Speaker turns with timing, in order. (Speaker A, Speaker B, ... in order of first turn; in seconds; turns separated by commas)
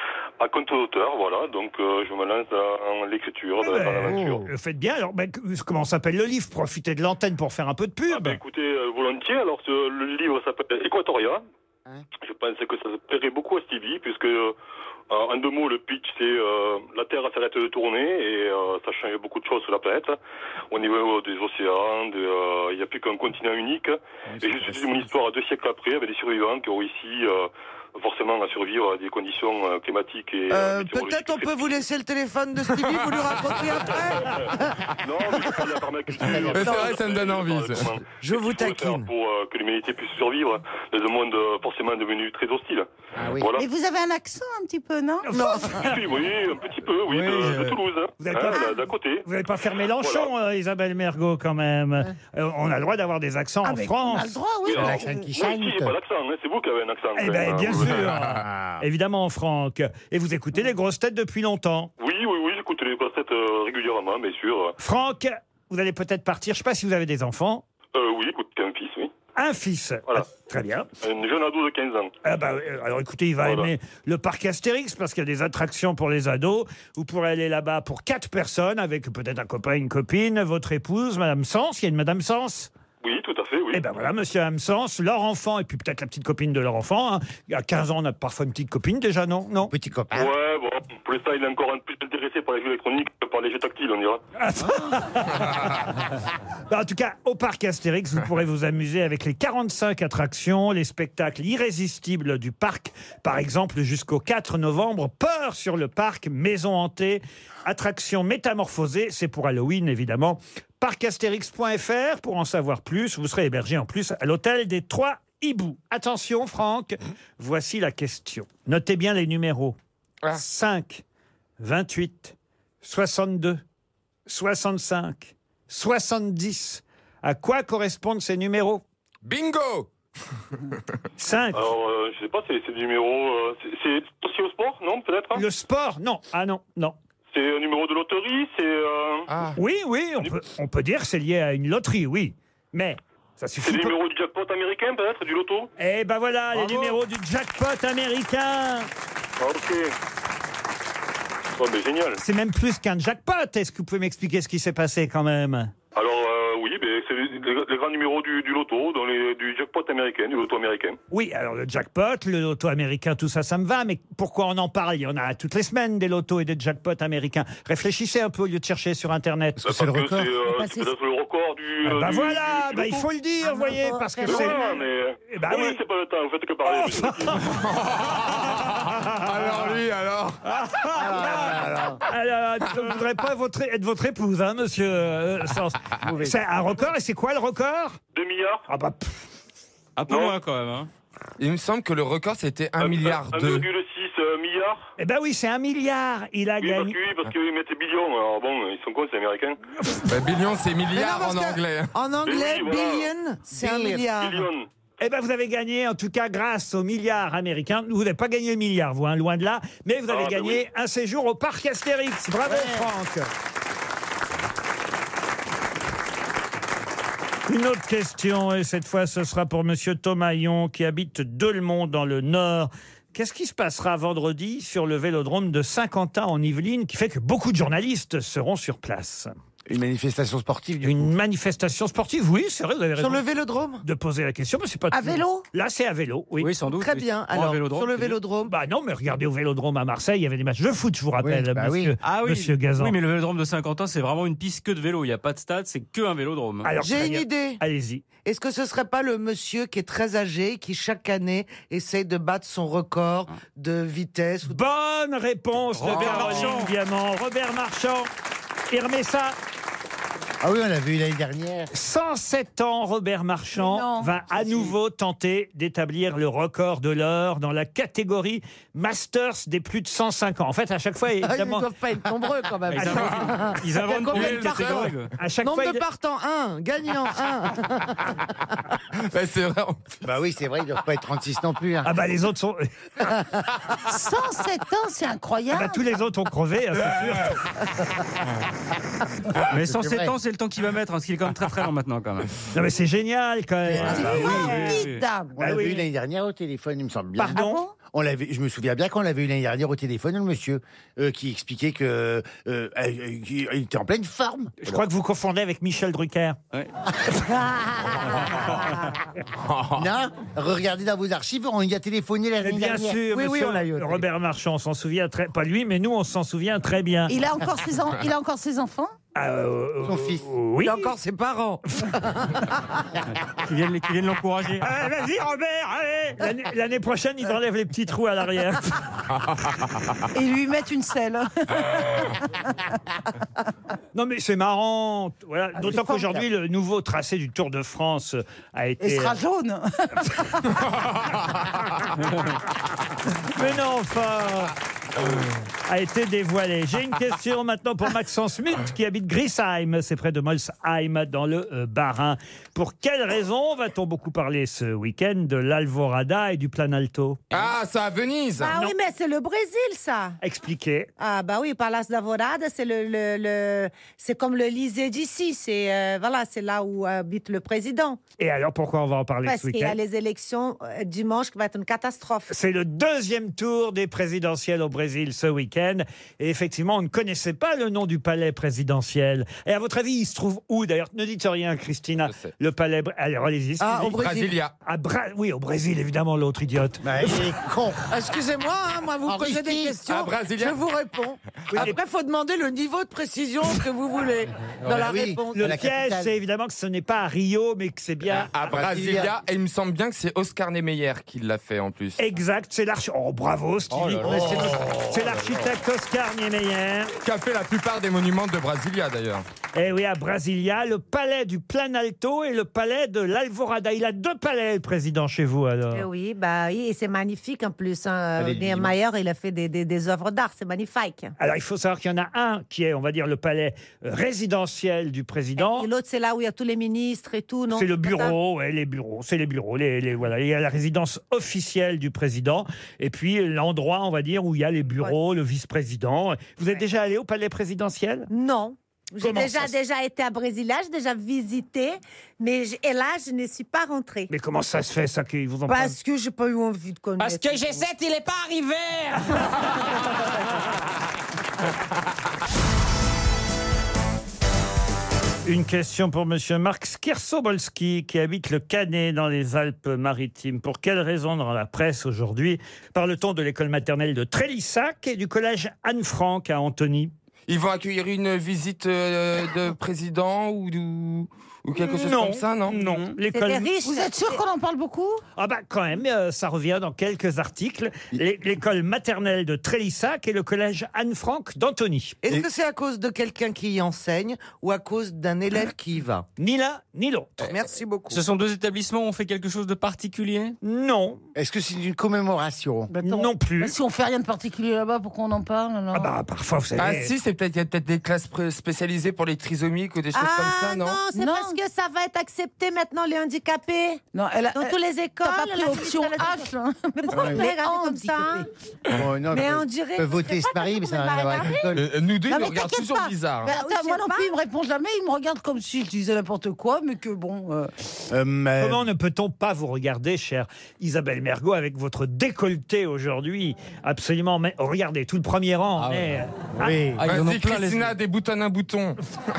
Speaker A: 0.4-4.5, Speaker B: 3.6-8.4, Speaker C: 4.0-4.5, Speaker A: 8.1-11.4, Speaker A: 12.2-14.5, Speaker A: 15.1-20.2, Speaker A: 20.7-31.8, Speaker C: 24.4-25.1, Speaker D: 30.5-34.7, Speaker A: 33.9-42.9, Speaker E: 36.3-38.0, Speaker D: 36.5-37.0, Speaker D: 38.2-39.1, Speaker C: 43.2-43.5, Speaker A: 43.4-43.6, Speaker F: 43.5-45.8, Speaker B: 45.2-46.0, Speaker D: 45.3-45.9, Speaker A: 45.8-49.3, Speaker B: 48.2-48.7, Speaker B: 49.2-54.3, Speaker A: 50.0-50.3, Speaker F: 53.6-55.3, Speaker A: 54.6-58.0, Speaker C: 54.7-56.0, Speaker B: 57.2-61.9, Speaker E: 57.8-58.3, Speaker C: 58.3-58.8, Speaker A: 62.0-64.8, Speaker B: 64.8-67.6, Speaker A: 67.9-69.1, Speaker B: 69.3-70.9, Speaker A: 71.0-72.1, Speaker B: 72.2-82.7, Speaker A: 73.4-73.7, Speaker A: 83.0-83.8, Speaker B: 83.7-89.7, Speaker C: 89.7-90.3, Speaker A: 90.1-94.2, Speaker B: 94.4-95.9, Speaker B: 96.7-119.8, Speaker B: 120.3-121.0, Speaker B: 121.6-123.6, Speaker B: 124.3-128.8, Speaker E: 129.2-129.9, Speaker B: 131.2-131.7, Speaker A: 131.5-135.4, Speaker B: 135.3-136.9, Speaker A: 137.3-139.3, Speaker E: 139.3-139.6, Speaker B: 139.6-143.9, Speaker A: 143.6-145.7, Speaker B: 145.8-148.9, Speaker G: 146.5-147.0, Speaker A: 149.4-149.9, Speaker A: 151.6-152.2, Speaker B: 152.2-155.7, Speaker A: 155.9-161.0, Speaker B: 161.1-169.6, Speaker C: 169.6-170.4, Speaker A: 169.6-173.0, Speaker B: 171.8-174.6, Speaker H: 173.6-174.8, Speaker A: 174.2-177.4, Speaker B: 175.3-175.8, Speaker B: 176.7-177.5, Speaker E: 177.4-180.4, Speaker B: 178.2-179.5, Speaker B: 180.4-188.0, Speaker C: 180.9-182.0, Speaker C: 186.0-186.4, Speaker A: 188.1-188.6, Speaker B: 188.7-189.1, Speaker G: 190.0-190.9, Speaker A: 190.1-190.3, Speaker E: 191.4-193.7, Speaker A: 192.8-194.9, Speaker B: 195.0-196.9, Speaker A: 196.6-199.6, Speaker E: 200.1-201.9, Speaker D: 200.9-204.5, Speaker A: 202.2-203.1, Speaker C: 203.5-204.1, Speaker A: 204.2-204.7, Speaker B: 205.0-213.3, Speaker A: 210.1-210.6, Speaker C: 212.4-212.9, Speaker B: 217.5-229.3, Speaker C: 229.7-231.1, Speaker B: 230.8-233.2, Speaker D: 233.0-233.8, Speaker B: 233.8-236.5, Speaker F: 234.9-235.4, Speaker G: 236.4-238.2, Speaker D: 236.7-238.5, Speaker B: 238.5-242.9, Speaker C: 241.2-241.9, Speaker G: 242.0-246.7, Speaker B: 246.6-248.0, Speaker D: 246.8-247.6, Speaker D: 248.2-254.6, Speaker B: 254.4-258.1, Speaker G: 255.7-256.7, Speaker B: 258.7-259.4, Speaker C: 260.4-261.7, Speaker B: 261.7-271.7, Speaker F: 263.5-264.1, Speaker G: 264.4-264.7, Speaker D: 271.2-278.1, Speaker G: 272.7-275.1, Speaker B: 272.7-273.2, Speaker E: 274.1-274.9, Speaker B: 275.2-275.8, Speaker E: 278.9-280.0, Speaker C: 280.0-281.9, Speaker B: 281.8-282.7, Speaker F: 283.9-285.8, Speaker B: 285.5-287.4, Speaker G: 289.5-292.3, Speaker C: 289.6-290.1, Speaker B: 292.5-294.7, Speaker C: 293.6-294.8, Speaker F: 293.9-295.4, Speaker G: 293.9-295.0, Speaker C: 295.4-304.6, Speaker B: 295.4-295.9, Speaker B: 297.1-297.6, Speaker F: 297.3-297.7, Speaker B: 304.6-306.4, Speaker E: 309.4-309.8, Speaker C: 309.7-313.0, Speaker B: 312.4-317.1, Speaker D: 313.1-314.0, Speaker F: 317.1-318.9, Speaker B: 319.1-320.9, Speaker C: 319.8-320.2, Speaker D: 320.6-322.6, Speaker G: 323.4-324.7, Speaker B: 324.6-328.8, Speaker F: 330.1-332.1, Speaker B: 333.9-339.2, Speaker F: 335.6-336.2, Speaker F: 338.8-340.4, Speaker B: 343.2-344.5, Speaker B: 345.7-357.2, Speaker E: 357.3-358.5, Speaker H: 358.4-360.2, Speaker B: 360.2-360.9, Speaker H: 361.0-368.0, Speaker B: 368.2-369.8, Speaker H: 369.2-372.3, Speaker B: 372.3-384.0, Speaker E: 382.0-382.3, Speaker D: 383.6-384.3, Speaker E: 383.9-384.5, Speaker B: 384.6-387.2, Speaker C: 386.8-387.8, Speaker D: 387.9-395.4, Speaker C: 389.1-389.8, Speaker E: 389.9-390.6, Speaker C: 394.6-396.1, Speaker B: 395.3-398.3, Speaker E: 398.1-402.0, Speaker C: 398.4-399.1, Speaker B: 402.0-406.9, Speaker C: 404.0-405.4, Speaker E: 407.0-409.2, Speaker B: 409.5-415.9, Speaker H: 415.7-421.1, Speaker C: 418.2-418.7, Speaker B: 421.2-425.7, Speaker H: 425.4-428.1, Speaker B: 427.5-438.1, Speaker H: 438.1-444.1, Speaker B: 439.0-439.5, Speaker B: 444.1-445.8, Speaker H: 445.5-447.7, Speaker I: 447.0-449.4, Speaker B: 455.2-466.9, Speaker E: 467.3-472.6, Speaker B: 471.6-473.5, Speaker H: 473.1-474.2, Speaker F: 473.6-475.0, Speaker B: 475.2-482.0, Speaker D: 482.0-486.0, Speaker B: 486.2-487.3, Speaker D: 487.2-488.0, Speaker G: 487.9-490.4, Speaker B: 490.4-491.0, Speaker C: 491.1-492.7, Speaker F: 492.7-495.9, Speaker B: 492.8-493.5, Speaker B: 495.7-496.9, Speaker E: 496.6-500.8, Speaker H: 499.9-503.8, Speaker F: 500.9-501.4, Speaker F: 503.9-508.3, Speaker H: 504.3-506.3, Speaker H: 506.8-508.3, Speaker C: 506.9-507.2, Speaker C: 508.7-511.6, Speaker H: 509.1-511.5, Speaker E: 511.5-513.3, Speaker F: 512.1-517.5, Speaker H: 513.2-514.1, Speaker C: 517.9-518.6, Speaker B: 518.4-526.6, Speaker G: 525.6-526.0, Speaker C: 526.4-526.8, Speaker G: 526.8-527.7, Speaker E: 526.8-528.8